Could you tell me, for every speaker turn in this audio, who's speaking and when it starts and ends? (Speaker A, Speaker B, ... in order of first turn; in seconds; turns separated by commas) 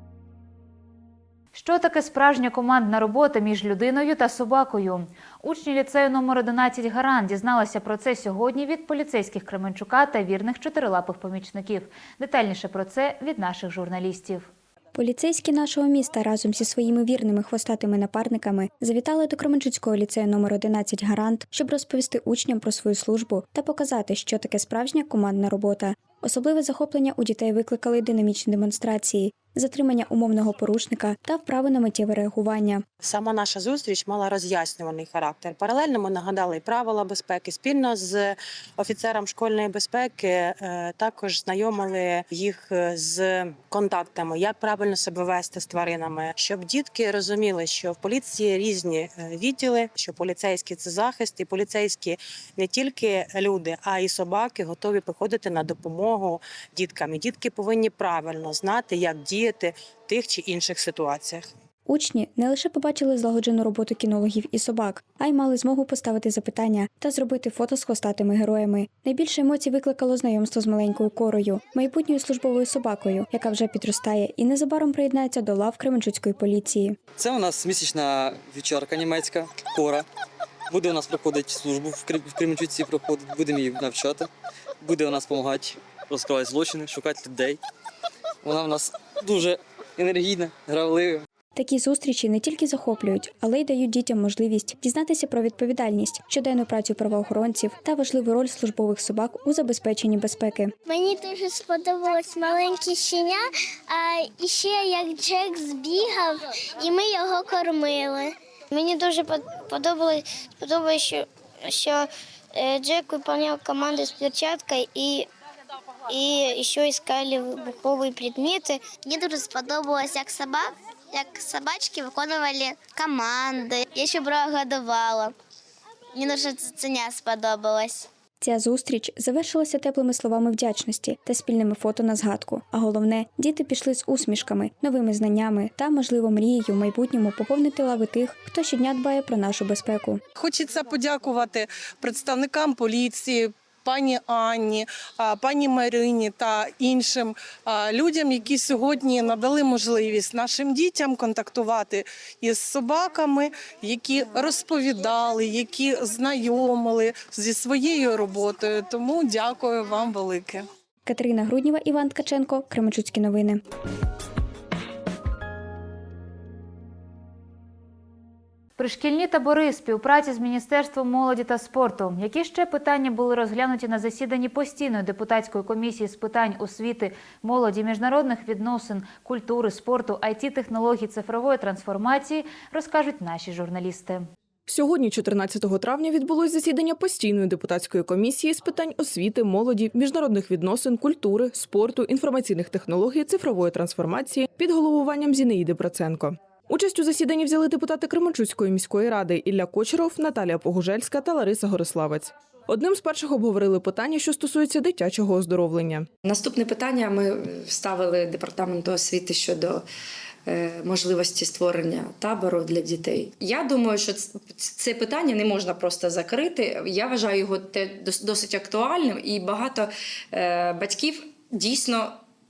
Speaker A: 1.5-14.5, Speaker B: 14.9-32.8, Speaker C: 33.0-61.4, Speaker B: 61.9-77.0, Speaker D: 77.2-80.0, Speaker D: 80.7-84.3, Speaker D: 84.8-87.6, Speaker D: 88.4-91.2, Speaker B: 91.6-100.7, Speaker E: 100.9-115.2, Speaker E: 116.1-125.3, Speaker E: 126.2-128.0, Speaker B: 128.4-140.2, Speaker F: 140.4-143.2, Speaker F: 143.9-144.6, Speaker F: 145.3-147.2, Speaker F: 147.8-151.8, Speaker F: 152.8-153.2, Speaker F: 153.8-159.5, Speaker C: 159.7-160.0, Speaker F: 160.2-160.6, Speaker B: 161.1-163.6, Speaker A: 168.8-184.3, Speaker G: 184.7-206.1, Speaker H: 206.2-209.9, Speaker H: 210.5-222.2